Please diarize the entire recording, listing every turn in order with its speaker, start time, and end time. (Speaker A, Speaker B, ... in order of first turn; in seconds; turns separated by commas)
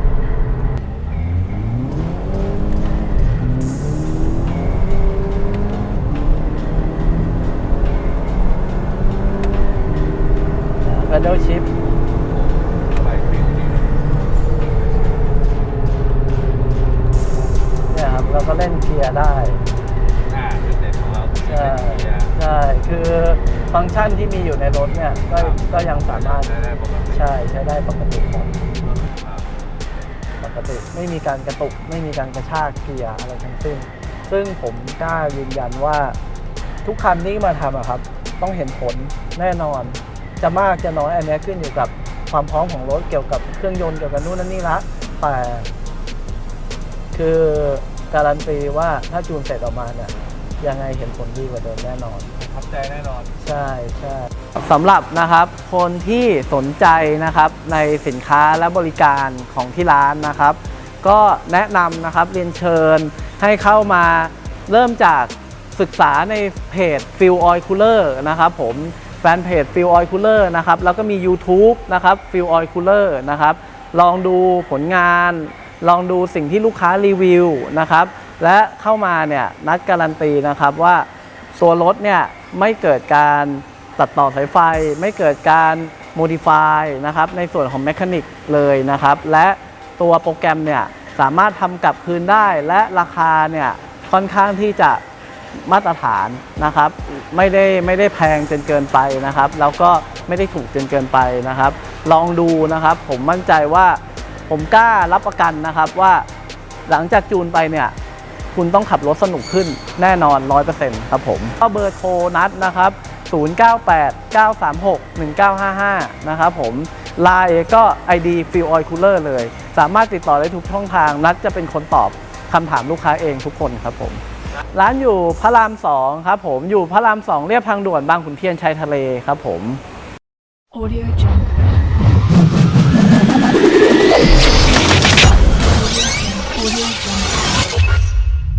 Speaker A: 10.8-11.7, Speaker B: 11.8-15.3, Speaker A: 17.9-19.6, Speaker B: 20.2-22.4, Speaker A: 21.4-26.5, Speaker B: 25.3-27.2, Speaker A: 27.1-28.6, Speaker B: 28.8-29.5, Speaker A: 30.4-36.2, Speaker A: 36.8-45.7, Speaker A: 47.1-52.3, Speaker B: 52.4-53.3, Speaker A: 53.4-95.0, Speaker A: 95.5-106.3, Speaker A: 106.9-108.0, Speaker A: 108.5-129.8, Speaker C: 130.7-131.8, Speaker C: 135.7-137.6